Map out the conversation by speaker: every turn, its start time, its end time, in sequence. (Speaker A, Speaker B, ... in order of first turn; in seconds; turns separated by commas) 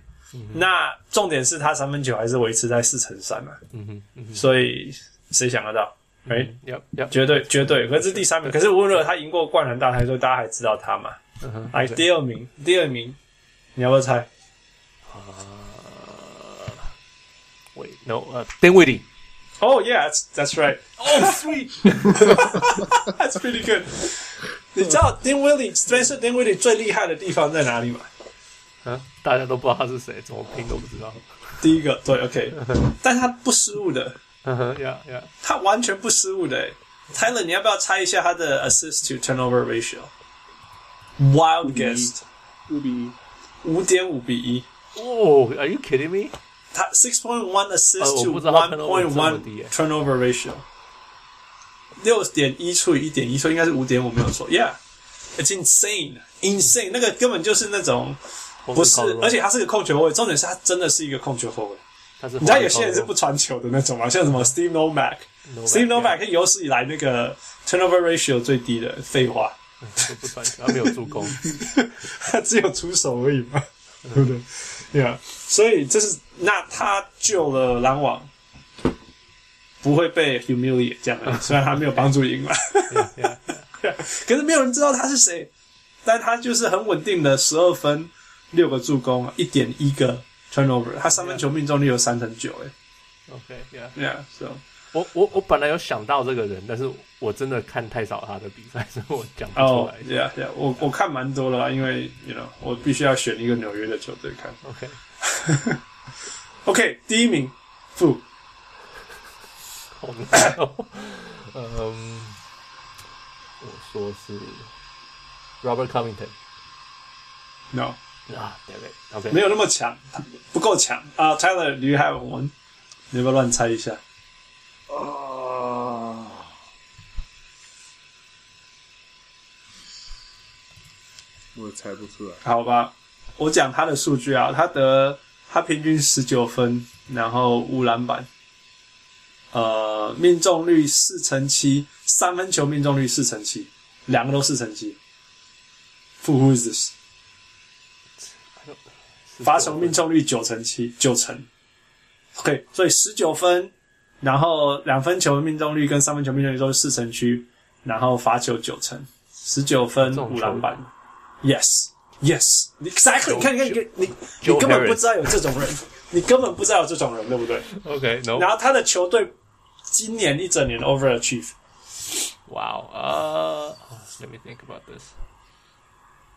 Speaker A: 0.3-0.6, Speaker B: 0.5-3.6, Speaker A: 3.7-4.5, Speaker B: 4.3-6.5, Speaker A: 6.3-8.8, Speaker B: 7.1-11.2, Speaker A: 11.4-12.1, Speaker B: 11.7-13.2, Speaker B: 13.8-14.3, Speaker A: 15.1-16.8, Speaker A: 17.8-19.1, Speaker B: 19.6-28.1, Speaker A: 21.0-22.8, Speaker A: 28.9-31.6, Speaker B: 31.6-34.2, Speaker A: 32.6-32.9, Speaker A: 34.5-35.3, Speaker B: 35.4-40.1, Speaker B: 41.2-42.2, Speaker C: 41.6-42.1, Speaker C: 42.7-43.2, Speaker B: 43.6-44.7, Speaker A: 45.0-46.4, Speaker B: 46.7-50.6, Speaker A: 48.0-49.7, Speaker B: 52.0-54.8, Speaker B: 55.4-58.2, Speaker A: 58.6-59.4, Speaker B: 58.7-61.8, Speaker A: 62.2-63.1, Speaker B: 62.4-69.6, Speaker A: 65.5-66.2, Speaker A: 69.8-71.7, Speaker B: 70.6-78.3, Speaker B: 79.8-83.1, Speaker A: 81.3-82.1, Speaker A: 82.9-83.7, Speaker B: 83.7-85.5, Speaker B: 86.0-92.7, Speaker A: 91.1-91.5, Speaker A: 93.3-94.0, Speaker B: 94.0-94.6, Speaker A: 94.9-100.1, Speaker B: 99.6-104.6, Speaker A: 104.6-105.0, Speaker B: 105.2-105.8, Speaker B: 106.7-108.2, Speaker A: 109.9-112.4, Speaker A: 113.6-114.7, Speaker A: 115.6-116.3, Speaker B: 117.7-118.0, Speaker A: 118.3-119.5, Speaker B: 119.3-122.5, Speaker B: 123.1-124.0, Speaker C: 124.9-126.5, Speaker C: 131.6-132.4, Speaker B: 132.4-138.3, Speaker B: 139.5-145.0, Speaker B: 146.2-146.9, Speaker A: 148.2-150.0, Speaker B: 149.4-151.5, Speaker B: 152.4-160.9, Speaker A: 160.0-160.8, Speaker B: 161.4-167.8, Speaker A: 163.2-165.3, Speaker A: 167.7-168.5, Speaker B: 168.3-169.3, Speaker B: 169.9-171.6, Speaker A: 172.5-175.1